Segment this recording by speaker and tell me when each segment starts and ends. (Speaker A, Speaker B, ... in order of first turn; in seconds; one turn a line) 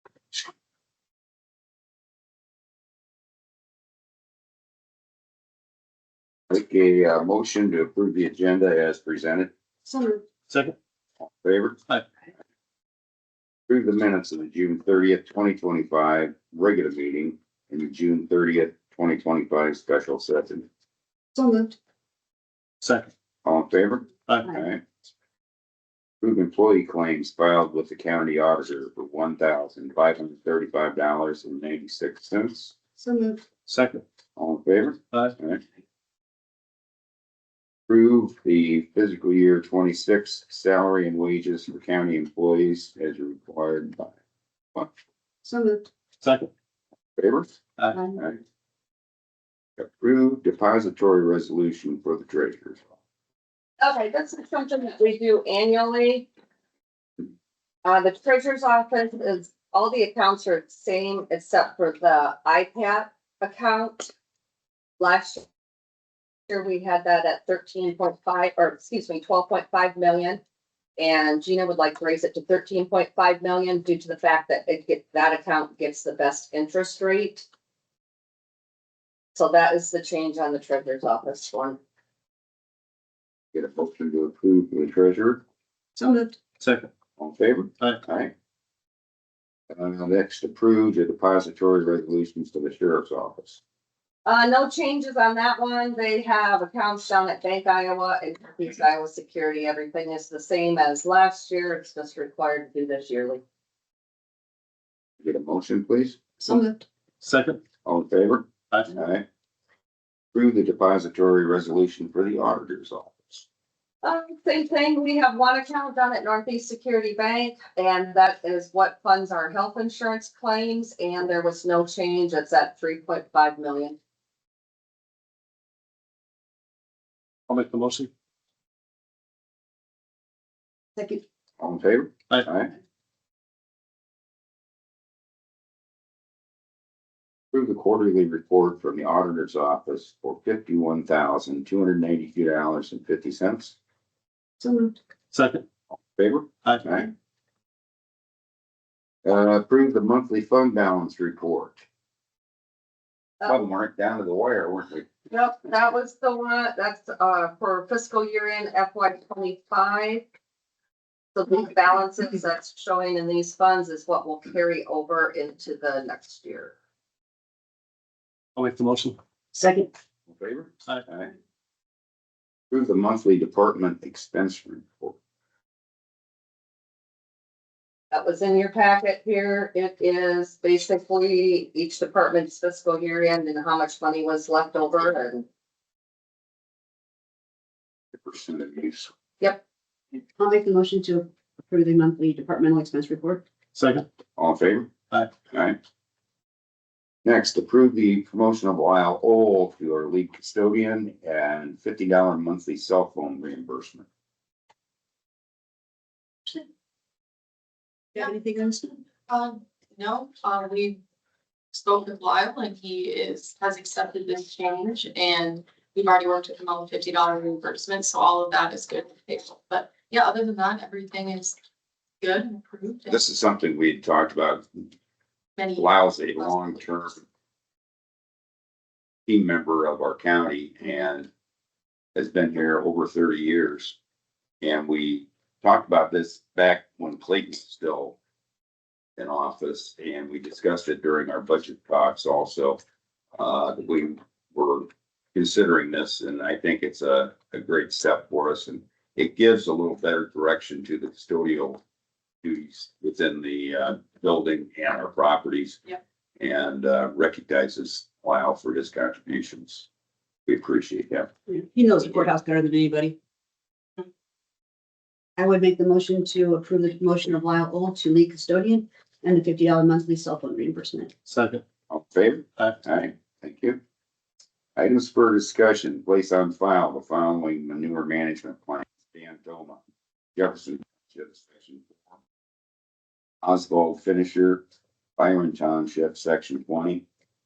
Speaker A: 6.5-9.5
Speaker B: 9.8-10.2
Speaker C: 10.5-10.7
Speaker A: 11.2-11.8
Speaker A: 13.7-20.7
Speaker B: 21.3-21.8
Speaker C: 22.8-23.1
Speaker A: 23.4-24.8
Speaker C: 24.3-24.5
Speaker A: 26.2-32.7
Speaker B: 33.0-33.4
Speaker C: 33.6-34.0
Speaker A: 34.4-35.6
Speaker A: 37.9-44.1
Speaker B: 45.4-45.9
Speaker C: 46.2-46.5
Speaker A: 47.2-47.5
Speaker B: 47.9-48.2
Speaker A: 49.8-52.9
Speaker D: 53.8-56.3
Speaker D: 57.8-64.1
Speaker D: 65.0-65.4
Speaker D: 66.5-70.4
Speaker D: 71.0-77.5
Speaker D: 79.3-81.8
Speaker A: 83.5-85.4
Speaker B: 86.0-86.4
Speaker C: 86.6-86.9
Speaker A: 87.2-88.3
Speaker A: 89.7-93.6
Speaker D: 94.2-103.4
Speaker A: 105.2-106.2
Speaker B: 106.4-106.8
Speaker C: 107.2-107.6
Speaker A: 107.8-109.2
Speaker A: 110.3-113.4
Speaker D: 114.0-124.0
Speaker C: 127.5-128.1
Speaker B: 131.0-131.2
Speaker A: 131.6-132.7
Speaker A: 137.5-143.7
Speaker B: 144.6-144.9
Speaker C: 145.3-145.6
Speaker A: 146.1-147.1
Speaker A: 149.2-151.8
Speaker D: 153.4-153.7
Speaker A: 153.4-155.1
Speaker D: 155.3-160.2
Speaker D: 161.3-166.7
Speaker C: 168.6-169.2
Speaker B: 169.5-169.9
Speaker A: 170.3-171.3
Speaker A: 172.7-175.2
Speaker D: 178.1-185.4
Speaker A: 188.1-189.1
Speaker B: 190.4-193.4
Speaker C: 193.7-194.0
Speaker A: 194.4-194.9
Speaker A: 195.5-195.8
Speaker A: 197.2-204.1
Speaker B: 208.1-209.0
Speaker E: 209.2-211.0
Speaker E: 211.7-221.6
Speaker E: 222.2-223.2
Speaker A: 223.1-224.9
Speaker E: 225.6-226.8
Speaker A: 225.8-227.2
Speaker A: 229.2-231.3
Speaker A: 232.1-233.9
Speaker A: 234.6-238.2
Speaker A: 239.2-242.8
Speaker A: 243.4-251.8
Speaker A: 252.4-255.8
Speaker A: 256.4-259.9
Speaker A: 260.4-261.3
Speaker B: 261.5-263.1
Speaker B: 265.4-271.1
Speaker C: 271.3-271.6
Speaker A: 271.9-273.8
Speaker A: 274.8-279.8
Speaker A: 280.4-282.1
Speaker A: 283.4-284.6
Speaker A: 285.2-287.0